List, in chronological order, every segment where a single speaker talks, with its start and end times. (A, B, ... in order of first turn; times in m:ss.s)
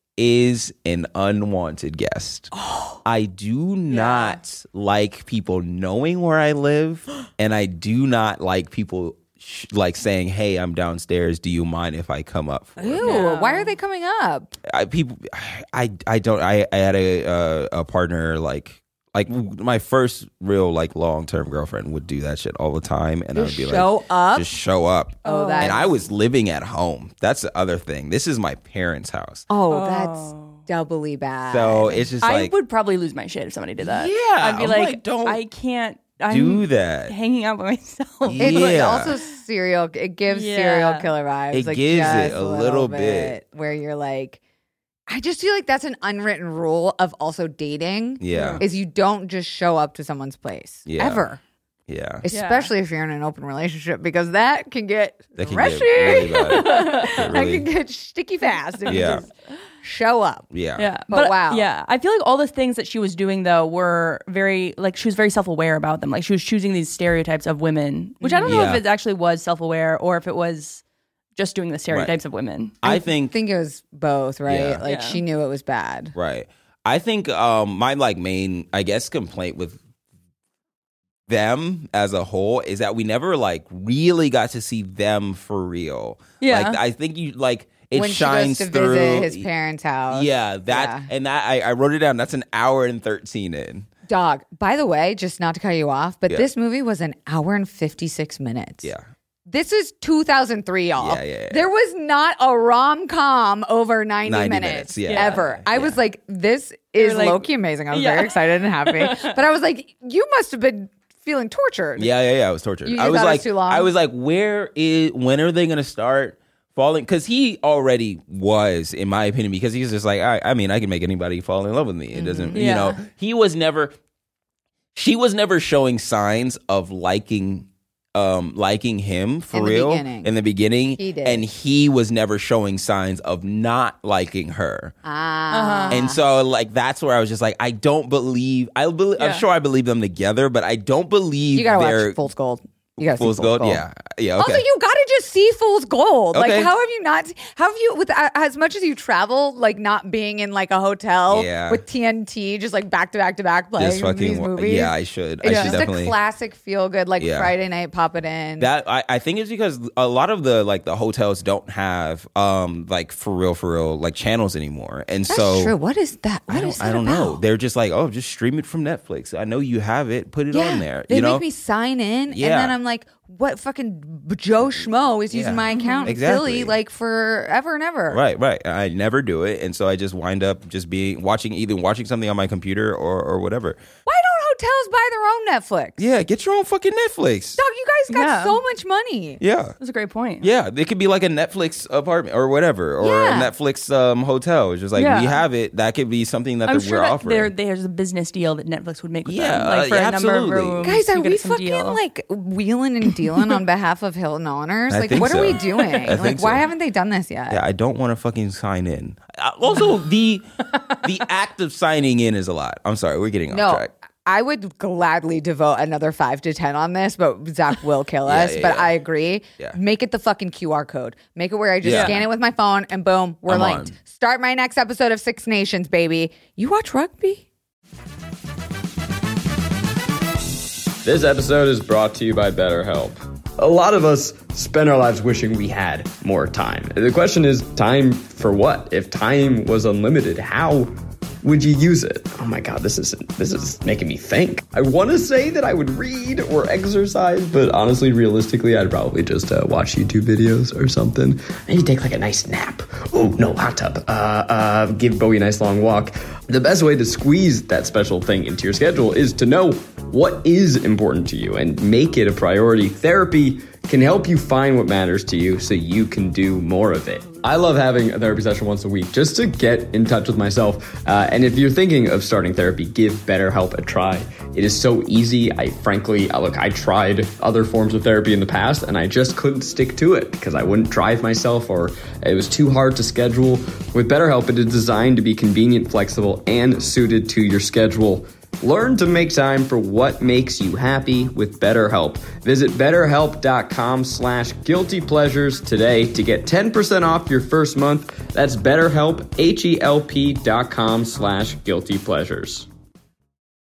0:00.2-0:02.5 A
0:02.5-0:03.0 B
0:03.0-0:13.2 A
0:03.9-0:04.4 B
0:12.8-0:14.5 B
0:13.0-0:13.8 C
0:14.7-0:29.5 A
0:23.4-0:24.5 B
0:25.2-0:26.0 B
0:25.2-0:25.9 C
0:29.5-0:32.1 B
0:29.7-0:30.6 C
0:31.5-0:32.5 A
0:32.2-0:39.3 C
0:33.8-0:35.4 A
0:36.3-0:37.2 A
0:38.2-0:39.1 A
0:38.4-0:44.4 B
0:40.3-0:41.1 C
0:41.5-0:43.3 A
0:45.1-0:51.4 B
0:48.2-0:48.6 A
0:48.3-0:48.6 C
0:50.9-0:51.2 A
0:51.9-0:52.2 A
0:52.2-1:00.5 B
0:52.3-0:52.7 C
0:55.4-0:57.7 A
0:56.1-0:57.1 C
0:58.9-0:59.2 A
1:00.5-1:00.9 A
1:00.8-1:10.8 C
1:01.1-1:01.7 B
1:08.2-1:08.6 B
1:08.5-1:08.8 A
1:11.4-1:12.8 C
1:12.8-1:13.3 A
1:12.8-1:16.2 B
1:14.5-1:14.8 A
1:14.8-1:15.2 C
1:16.2-1:19.8 A
1:21.3-1:29.5 A
1:26.4-1:26.8 C
1:27.9-1:31.1 B
1:30.1-1:33.9 A
1:34.1-1:38.9 B
1:39.5-1:52.1 B
1:41.0-1:41.6 A
1:44.2-1:46.0 A
1:45.1-1:45.4 C
1:47.0-1:49.4 C
1:52.0-2:04.0 A
1:52.8-1:53.9 B
2:02.1-2:02.7 B
2:02.6-2:03.0 C
2:05.0-2:15.0 A
2:09.5-2:10.3 B
2:11.0-2:11.4 B
2:15.0-2:16.2 B
2:15.5-2:16.0 C
2:15.9-2:22.2 A
2:19.2-2:19.4 C
2:21.5-2:23.8 B
2:23.0-2:24.6 A
2:24.4-2:38.7 B
2:26.3-2:26.7 A
2:31.3-2:31.8 A
2:33.8-2:36.2 A
2:35.4-2:35.8 C
2:37.2-2:37.5 A
2:38.6-2:45.7 A
2:45.3-2:47.4 B
2:46.5-2:51.4 A
2:50.5-2:58.2 B
2:52.3-2:52.8 A
2:55.3-2:56.8 A
2:55.7-2:56.1 C
2:58.1-3:03.8 A
3:04.1-3:06.0 B
3:06.0-3:07.6 A
3:07.6-3:09.4 B
3:08.1-3:08.6 C
3:09.4-3:09.8 A
3:09.8-3:10.5 C
3:10.4-3:17.5 A
3:13.0-3:13.5 B
3:15.0-3:15.4 C
3:16.7-3:22.0 C
3:19.2-3:20.9 A
3:20.8-3:27.6 B
3:24.9-3:26.7 A
3:25.8-3:26.2 C
3:27.5-3:30.5 A
3:31.0-3:33.9 A
3:33.5-3:47.5 B
3:38.3-3:38.9 A
3:41.8-3:42.2 A
3:41.9-3:42.2 C
3:43.5-3:44.0 A
3:51.0-5:02.7 D